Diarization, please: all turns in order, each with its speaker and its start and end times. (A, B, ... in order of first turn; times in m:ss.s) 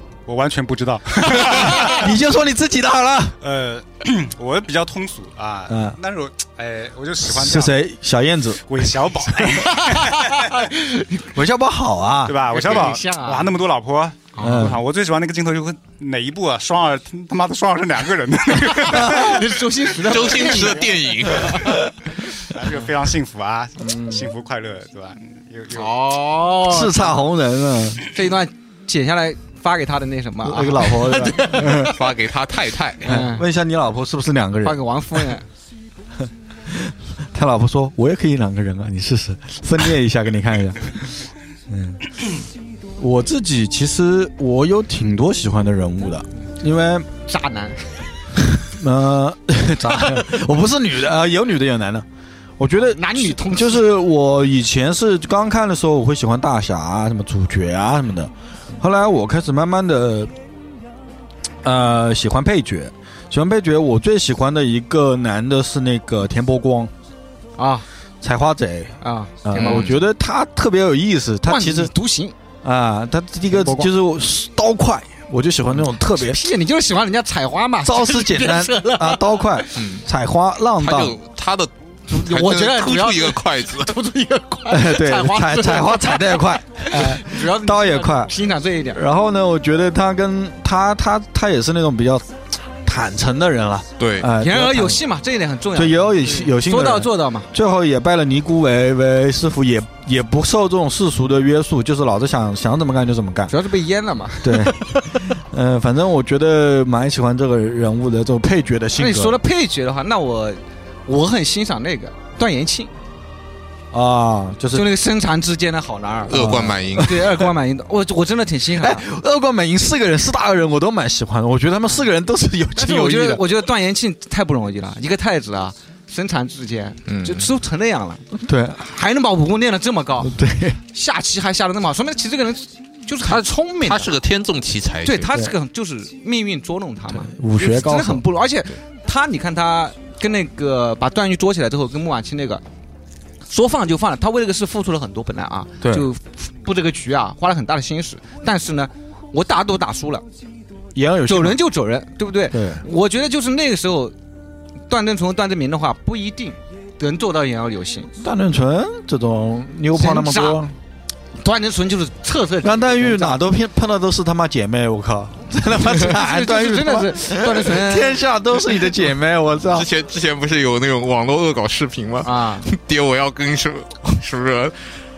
0:00.2-0:02.1 A
0:01.3-0:03.4 B
0:03.4-0:07.8 A
0:05.7-0:06.0 B
0:07.2-0:09.6 B
0:08.7-0:10.6 A
0:09.6-0:11.2 C
0:11.3-0:12.4 B
0:12.2-0:19.6 A
0:12.5-0:13.6 C
0:14.3-0:14.8 C
0:14.4-0:14.8 B
0:18.7-0:21.7 C
0:20.0-0:21.7 D
0:21.5-0:21.7 B
0:22.4-0:25.9 A
0:23.8-0:24.2 C
0:25.7-0:27.2 C
0:26.6-0:28.0 B
0:28.1-0:31.9 C
0:30.4-0:32.0 B
0:31.5-0:33.1 D
0:33.0-0:33.4 C
0:33.0-0:34.8 B
0:34.6-0:35.4 C
0:36.3-0:41.1 B
0:41.7-0:42.0 B
0:43.0-0:47.1 B
0:47.2-0:48.0 C
0:48.4-0:52.0 B
0:52.6-1:00.3 B
0:52.8-0:53.9 C
1:01.6-1:06.9 B
1:07.6-1:07.8 C
1:08.2-1:11.9 B
1:09.0-1:09.9 C
1:09.6-1:10.0 D
1:11.4-1:12.3 C
1:12.6-1:16.4 B
1:13.5-1:13.9 C
1:16.2-1:19.7 C
1:17.8-1:21.2 B
1:19.7-1:20.0 D
1:20.8-1:23.9 D
1:22.1-1:29.0 C
1:24.7-1:28.3 B
1:28.9-1:32.3 B
1:32.8-1:35.0 B
1:34.0-1:34.3 D
1:34.4-1:37.5 C
1:35.7-1:43.5 B
1:43.5-1:45.2 C
1:44.4-1:49.4 B
1:49.0-1:52.9 C
1:53.9-1:54.9 B
1:54.7-1:59.0 C
1:56.3-1:57.3 D
1:56.3-1:57.4 B
1:58.8-2:03.4 B
2:02.8-2:08.2 C
2:07.1-2:07.5 D
2:08.3-2:08.8 B
2:08.8-2:10.3 C
2:10.2-2:10.8 B
2:10.9-2:14.1 C
2:13.2-2:15.3 D
2:15.0-2:22.6 C
2:17.1-2:18.2 B
2:23.5-2:30.2 C
2:25.8-2:26.1 B
2:30.9-2:31.6 B
2:31.3-2:34.1 C
2:32.5-2:32.8 B
2:34.9-2:38.1 C
2:38.2-2:40.7 B
2:39.9-2:40.7 C
2:41.4-2:43.4 C
2:42.6-2:49.9 B
2:45.8-2:48.2 C
2:49.7-2:54.9 D
2:52.2-2:52.7 C